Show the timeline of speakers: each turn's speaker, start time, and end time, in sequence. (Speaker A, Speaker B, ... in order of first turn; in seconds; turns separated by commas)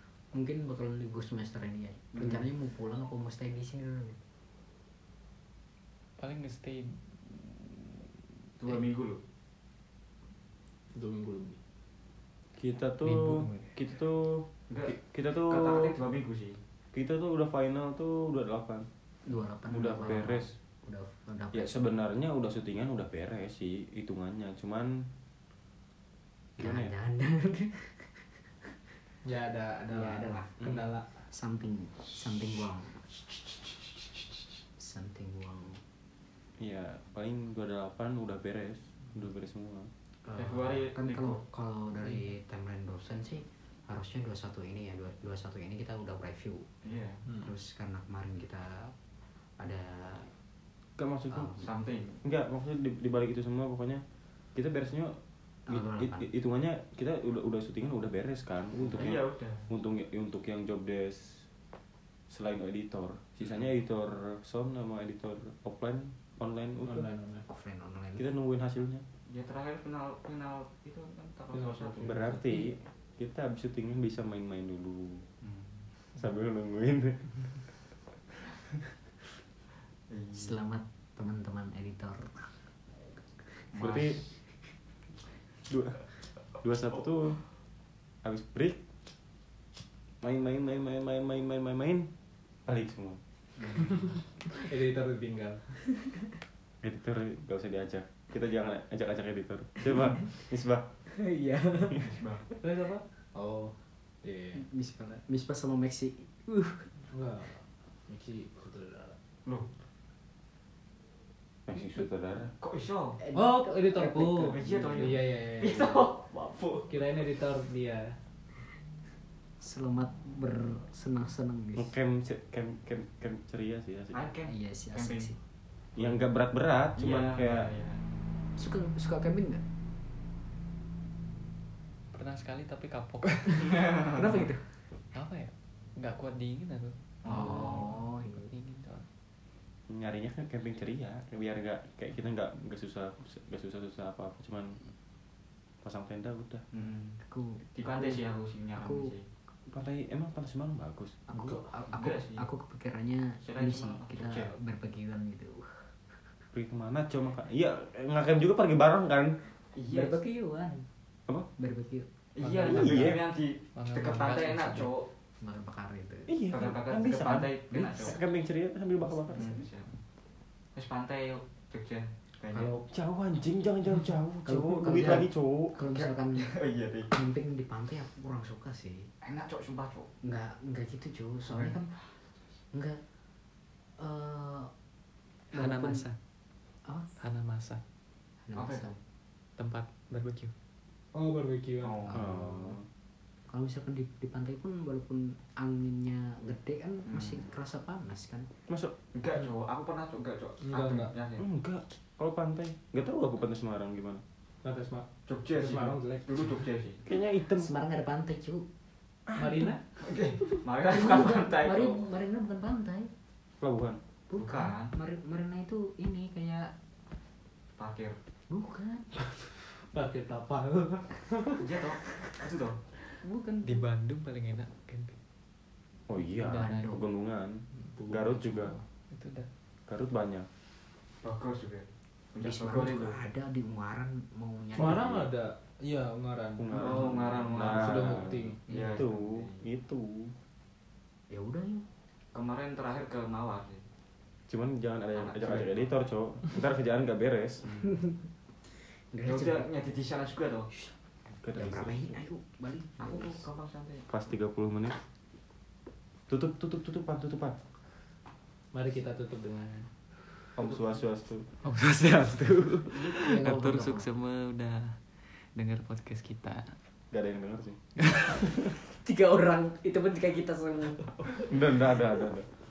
Speaker A: 0.3-4.2, Speaker B: 6.2-7.9, Speaker C: 8.6-9.2, Speaker D: 10.9-11.6, Speaker E: 12.6-15.9, Speaker B: 13.0-13.7, Speaker C: 14.7-16.6, Speaker E: 16.9-18.9, Speaker A: 19.2-21.8, Speaker E: 19.7-20.6, Speaker E: 21.5-25.1, Speaker E: 26.6-26.9, Speaker A: 26.6-28.7, Speaker D: 29.2-31.3, Speaker A: 29.9-30.7, Speaker E: 30.6-30.9, Speaker A: 31.3-33.0, Speaker A: 34.8-35.8, Speaker E: 36.6-39.9, Speaker A: 40.2-46.7, Speaker C: 40.3-41.4, Speaker C: 46.8-47.2, Speaker A: 47.4-48.9, Speaker A: 49.6-50.3, Speaker E: 51.0-51.6, Speaker A: 51.3-51.6, Speaker C: 51.5-52.2, Speaker E: 52.2-54.0, Speaker E: 54.5-61.5, Speaker A: 55.7-56.3, Speaker C: 58.8-59.7, Speaker E: 62.3-67.1, Speaker D: 66.8-67.5, Speaker A: 67.5-68.3, Speaker E: 68.2-69.0, Speaker C: 69.3-72.3, Speaker D: 71.5-72.6, Speaker E: 72.0-75.2, Speaker C: 75.4-75.9, Speaker E: 76.2-77.5, Speaker C: 80.1-80.6, Speaker A: 80.3-82.6, Speaker A: 83.4-83.7, Speaker C: 83.7-84.1, Speaker E: 83.8-84.2, Speaker E: 85.7-87.5, Speaker E: 88.2-88.8, Speaker E: 90.2-92.1, Speaker E: 92.7-93.2, Speaker C: 93.6-93.9, Speaker D: 93.8-95.8, Speaker E: 96.8-100.8, Speaker A: 101.1-102.1, Speaker C: 102.0-102.4, Speaker D: 102.6-104.6, Speaker A: 104.5-106.9, Speaker D: 107.1-109.2, Speaker E: 111.7-112.5, Speaker C: 112.6-113.2, Speaker A: 113.2-115.2, Speaker D: 113.3-116.0, Speaker C: 114.4-117.2, Speaker D: 116.9-118.2, Speaker A: 119.6-121.9, Speaker E: 121.8-124.2, Speaker C: 124.1-125.3, Speaker A: 124.4-125.4, Speaker E: 125.9-127.7, Speaker C: 127.0-128.0, Speaker A: 128.6-129.6, Speaker B: 132.1-133.9, Speaker A: 133.6-134.7, Speaker B: 135.1-139.1, Speaker C: 137.2-137.9, Speaker A: 137.3-138.5, Speaker E: 139.9-144.8, Speaker E: 145.8-146.6, Speaker C: 146.7-147.2, Speaker A: 147.2-148.2, Speaker C: 147.7-149.2, Speaker A: 148.8-149.1, Speaker E: 149.7-151.2, Speaker A: 151.3-156.2, Speaker C: 151.5-152.4, Speaker C: 153.4-154.5, Speaker E: 156.5-159.4, Speaker C: 159.7-160.2, Speaker A: 159.9-160.9, Speaker A: 161.6-162.1, Speaker C: 162.3-165.1, Speaker B: 162.4-163.2, Speaker E: 162.7-163.2, Speaker B: 163.7-164.9, Speaker A: 165.4-166.3, Speaker E: 166.3-167.5, Speaker C: 166.5-168.2, Speaker A: 167.7-168.3, Speaker E: 168.0-169.5, Speaker A: 169.0-169.6, Speaker C: 169.3-169.9, Speaker C: 170.7-172.8, Speaker A: 172.5-172.8, Speaker E: 172.9-175.7, Speaker A: 174.4-176.5, Speaker C: 175.9-177.1, Speaker A: 177.1-179.1, Speaker C: 179.2-180.1, Speaker A: 180.2-181.9, Speaker C: 181.4-182.1, Speaker A: 182.7-183.0, Speaker A: 184.0-184.7, Speaker A: 185.5-186.0, Speaker B: 185.5-186.2, Speaker B: 187.2-187.8, Speaker A: 188.4-189.0, Speaker C: 188.5-188.9, Speaker B: 189.6-190.5, Speaker D: 191.1-192.1, Speaker C: 191.8-192.2, Speaker A: 192.1-192.8, Speaker E: 192.1-192.8, Speaker A: 193.5-198.5, Speaker C: 197.1-197.4, Speaker E: 198.7-198.9, Speaker C: 199.1-201.4, Speaker D: 200.6-201.1, Speaker E: 201.4-204.2, Speaker D: 204.6-206.6, Speaker C: 205.3-207.0, Speaker E: 207.1-207.7, Speaker A: 207.5-208.7, Speaker E: 209.3-209.7, Speaker D: 209.3-209.8, Speaker C: 209.9-212.0, Speaker A: 210.8-213.1, Speaker E: 213.6-214.0, Speaker A: 214.3-216.7, Speaker C: 214.4-214.9, Speaker C: 217.8-218.2, Speaker A: 218.5-219.1, Speaker D: 219.5-221.7, Speaker C: 221.6-222.8, Speaker A: 223.2-223.9, Speaker B: 223.6-225.2, Speaker E: 226.1-228.7, Speaker A: 226.4-227.1, Speaker B: 226.4-227.0, Speaker D: 227.8-228.8, Speaker B: 229.1-229.5, Speaker E: 229.9-230.5, Speaker C: 231.2-233.2, Speaker A: 232.4-235.3, Speaker D: 234.7-238.7, Speaker E: 234.9-235.2, Speaker E: 236.6-240.3, Speaker C: 236.7-239.6, Speaker A: 241.3-241.8, Speaker C: 242.3-243.8, Speaker E: 244.5-247.6, Speaker C: 245.1-245.9, Speaker A: 247.8-248.3, Speaker A: 248.8-249.7, Speaker C: 249.2-250.7, Speaker E: 251.4-252.2, Speaker A: 251.5-253.3, Speaker C: 253.0-254.1, Speaker E: 254.1-255.0, Speaker E: 256.3-257.6, Speaker D: 258.7-259.9, Speaker E: 260.5-261.5, Speaker B: 261.6-266.8, Speaker A: 263.1-264.1, Speaker E: 267.1-267.8, Speaker B: 268.1-268.4, Speaker A: 268.9-271.6, Speaker E: 271.4-272.5